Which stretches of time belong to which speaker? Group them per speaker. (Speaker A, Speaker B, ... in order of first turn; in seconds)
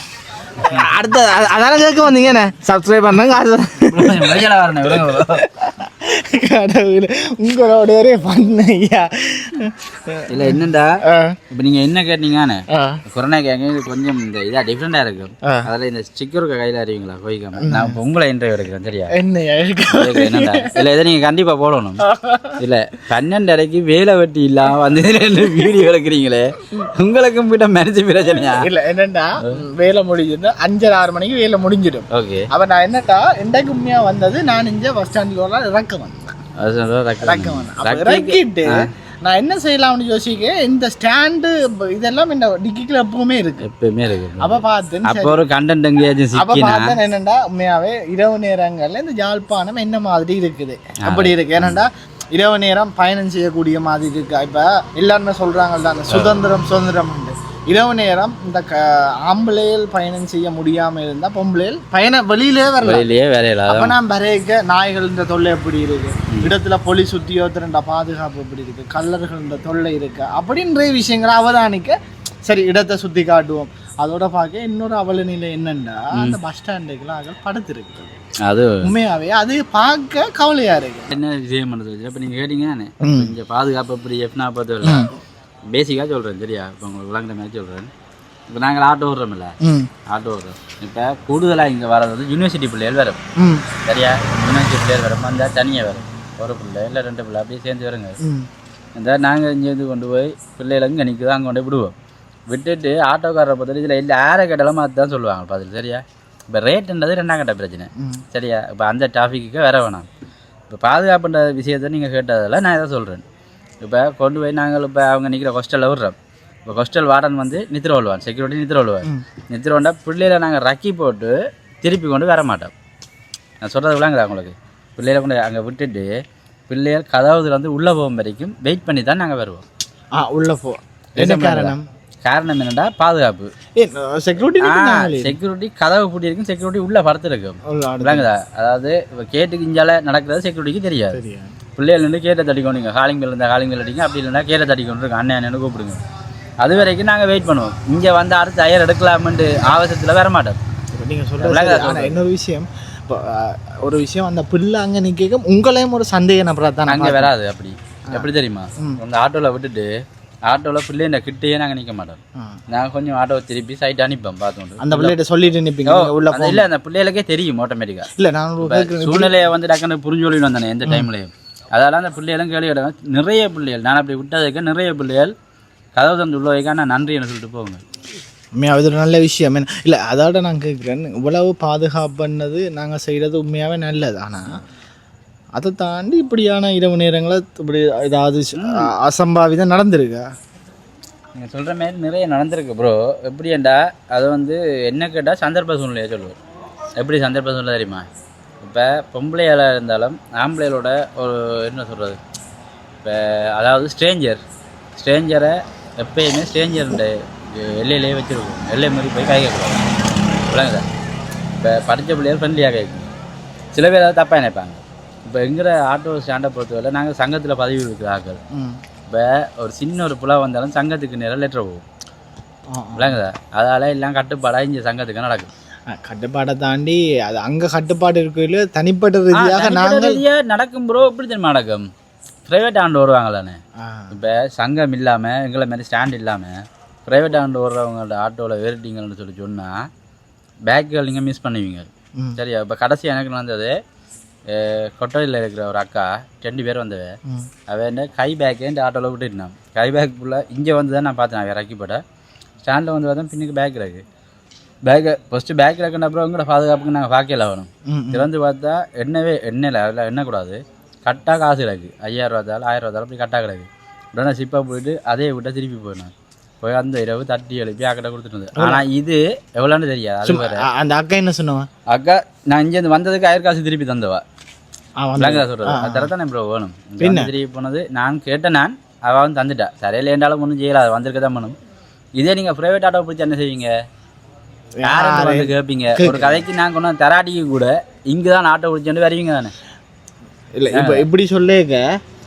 Speaker A: 0.6-4.4, 5.1-11.4, 12.7-13.0, 17.6-18.0, 19.1-20.8, 22.0-22.6, 28.4-36.4, 37.2-43.6, 44.4-45.4, 46.4-63.1, 63.7-78.1, 78.8-81.1, 83.0-83.3, 84.8-85.1, 89.6-89.9, 93.4-93.7, 98.2-98.5, 108.0-108.2, 130.1-131.8, 133.8-135.3, 137.7-138.3, 141.1-141.6, 151.0-157.3, 158.1-159.0, 164.8-166.7, 168.2-169.3, 178.6-184.6, 185.6-190.3, 218.5-218.8, 222.7-223.2, 225.9-230.2, 233.8-234.1, 257.9-258.3, 268.6-268.8, 270.2-271.7, 275.0-276.1, 277.0-277.3, 284.8-286.4, 290.6-291.9
Speaker B: 3.8-5.5, 10.3-11.0, 11.5-19.1, 19.9-22.0, 22.6-28.7, 32.1-32.5, 36.6-38.9, 43.6-47.0, 51.0-51.8, 56.1-56.4, 62.8-64.0, 78.4-78.9, 81.1-85.1, 85.7-87.9, 88.5-89.6, 90.1-93.2, 93.8-98.2, 99.0-101.9, 102.5-110.1, 110.7-113.2, 113.8-122.7, 123.6-126.2, 126.7-129.6, 131.2-133.5, 134.6-141.2, 141.8-146.0, 146.6-150.6, 151.4-152.2, 156.9-159.9, 160.5-162.2, 162.7-165.2, 165.9-168.1, 168.6-175.3, 176.0-177.8, 188.6-188.9, 191.4-196.4, 197.0-198.1, 198.6-202.2, 203.0-204.4, 205.0-209.9, 210.5-210.9, 211.6-213.1, 213.7-218.4, 219.1-221.8, 223.0-225.5, 229.3-231.9, 232.5-233.6, 234.1-239.9, 240.7-243.8, 244.5-247.2, 247.7-252.0, 252.6-254.0, 254.8-270.6, 271.9-274.2, 275.2-281.6, 282.2-283.7, 284.9-289.5, 290.7-291.1